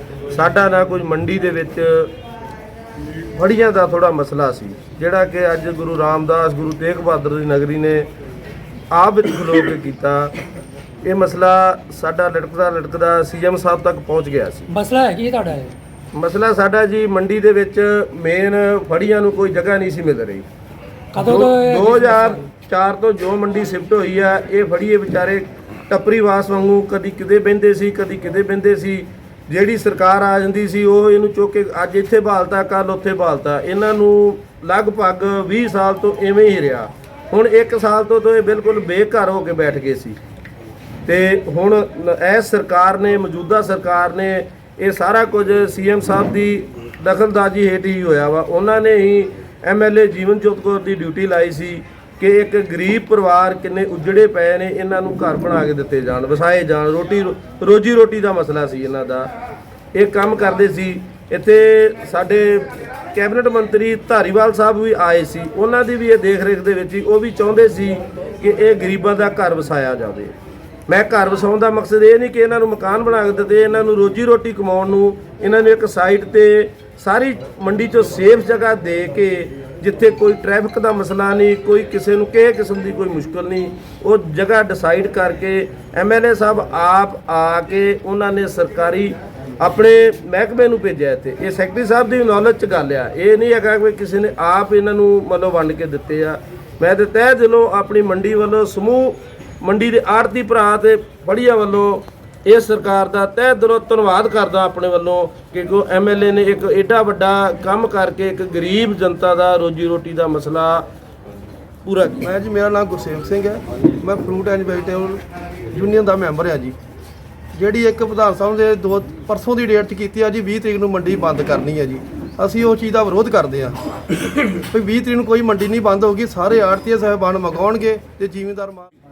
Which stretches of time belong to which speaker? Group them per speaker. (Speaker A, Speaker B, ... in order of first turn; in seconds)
Speaker A: 0.3-2.1, 3.4-8.1, 8.9-10.3, 11.0-14.7, 16.1-20.4, 21.2-40.2, 41.0-59.3, 60.0-70.3, 70.9-110.8, 111.8-112.3
Speaker B: 14.7-15.7, 21.1-22.4
Speaker C: 112.2-115.2, 115.7-116.7, 117.5-123.7, 124.7-128.9